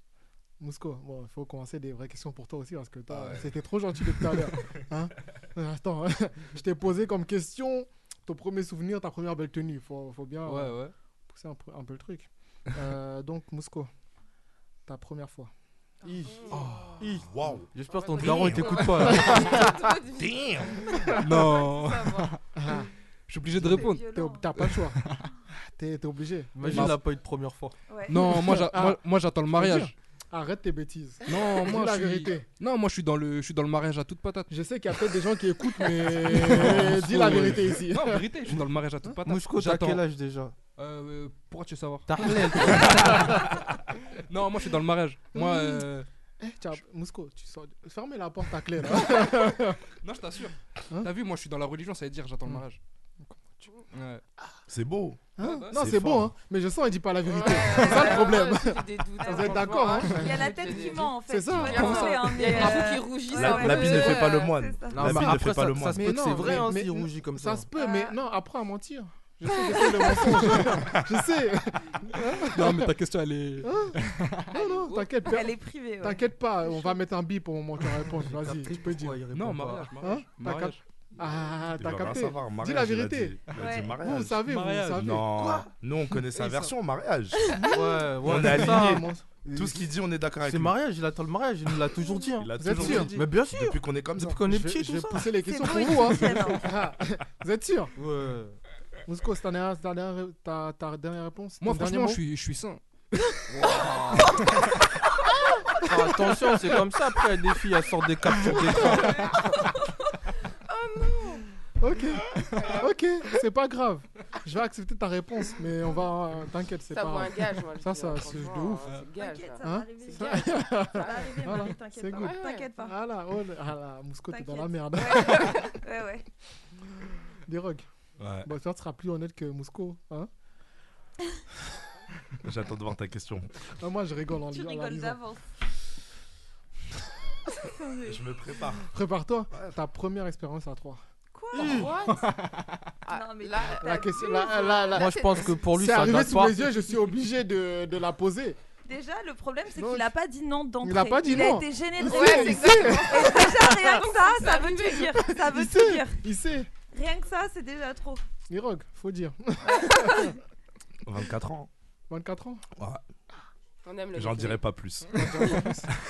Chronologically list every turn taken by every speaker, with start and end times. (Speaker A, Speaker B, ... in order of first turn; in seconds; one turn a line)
Speaker A: 0.6-13.9
Speaker B: 3.1-3.5
Speaker B: 10.5-10.9
Speaker A: 14.9-15.5
Speaker C: 16.1-19.8
Speaker D: 16.3-16.6
Speaker B: 16.6-16.9
Speaker E: 17.3-17.7
Speaker D: 17.9-22.3
Speaker E: 18.2-19.1
Speaker E: 20.1-20.9
Speaker B: 21.2-22.4
Speaker A: 22.6-22.9
Speaker B: 23.3-25.3
Speaker F: 23.6-24.6
Speaker A: 23.7-27.0
Speaker C: 26.6-27.8
Speaker B: 26.7-27.0
Speaker F: 27.9-28.3
Speaker B: 28.1-29.9
Speaker A: 28.2-32.5
Speaker B: 31.3-34.5
Speaker A: 34.5-38.3
Speaker B: 36.1-40.0
Speaker C: 39.3-40.5
Speaker B: 40.8-43.5
Speaker C: 42.1-43.4
Speaker B: 44.2-46.1
Speaker A: 45.3-45.9
Speaker A: 46.4-49.8
Speaker B: 50.0-52.8
Speaker A: 53.2-53.8
Speaker B: 53.9-54.2
Speaker E: 54.7-56.3
Speaker A: 55.4-62.7
Speaker B: 55.4-55.8
Speaker D: 57.3-64.5
Speaker F: 57.7-58.2
Speaker F: 60.0-65.3
Speaker B: 61.8-62.2
Speaker E: 63.3-66.2
Speaker C: 64.9-67.7
Speaker A: 65.9-72.9
Speaker F: 67.8-68.2
Speaker B: 72.4-74.5
Speaker A: 73.6-79.2
Speaker F: 74.8-77.0
Speaker C: 78.2-80.0
Speaker B: 79.3-80.8
Speaker A: 80.0-85.4
Speaker E: 81.8-87.6
Speaker F: 83.5-84.0
Speaker B: 84.5-85.0
Speaker C: 85.3-85.7
Speaker A: 86.2-86.7
Speaker A: 87.6-89.9
Speaker C: 87.7-89.1
Speaker E: 88.2-90.8
Speaker C: 90.5-95.4
Speaker E: 92.4-94.5
Speaker A: 92.6-93.2
Speaker A: 94.2-97.9
Speaker F: 95.4-96.8
Speaker C: 98.0-98.6
Speaker A: 99.1-102.2
Speaker B: 101.6-102.8
Speaker C: 103.5-104.4
Speaker B: 103.6-104.2
Speaker C: 105.8-109.4
Speaker A: 108.5-109.3
Speaker D: 110.7-111.4
Speaker A: 111.8-118.9
Speaker D: 116.9-121.6
Speaker F: 119.1-123.0
Speaker A: 119.6-125.7
Speaker D: 122.1-122.7
Speaker F: 124.3-126.3
Speaker A: 127.5-127.9
Speaker E: 128.2-128.5
Speaker A: 128.4-130.3
Speaker E: 132.4-133.6
Speaker A: 133.7-135.2
Speaker F: 134.5-135.5
Speaker F: 137.6-138.3
Speaker E: 138.0-138.9
Speaker A: 138.8-141.0
Speaker F: 141.3-141.9
Speaker C: 141.5-141.9
Speaker D: 141.6-142.3
Speaker D: 143.1-145.6
Speaker F: 143.1-144.9
Speaker A: 143.8-145.1
Speaker C: 144.9-146.9
Speaker A: 145.7-148.6
Speaker F: 148.8-156.2
Speaker A: 149.7-150.1
Speaker A: 150.8-154.0
Speaker D: 152.0-155.3
Speaker A: 155.4-156.7
Speaker F: 156.9-158.2
Speaker A: 158.5-160.3
Speaker F: 159.7-160.3
Speaker E: 161.1-161.7
Speaker A: 162.1-162.7
Speaker E: 162.8-163.0
Speaker D: 163.8-164.6
Speaker E: 164.1-165.7
Speaker A: 165.1-165.9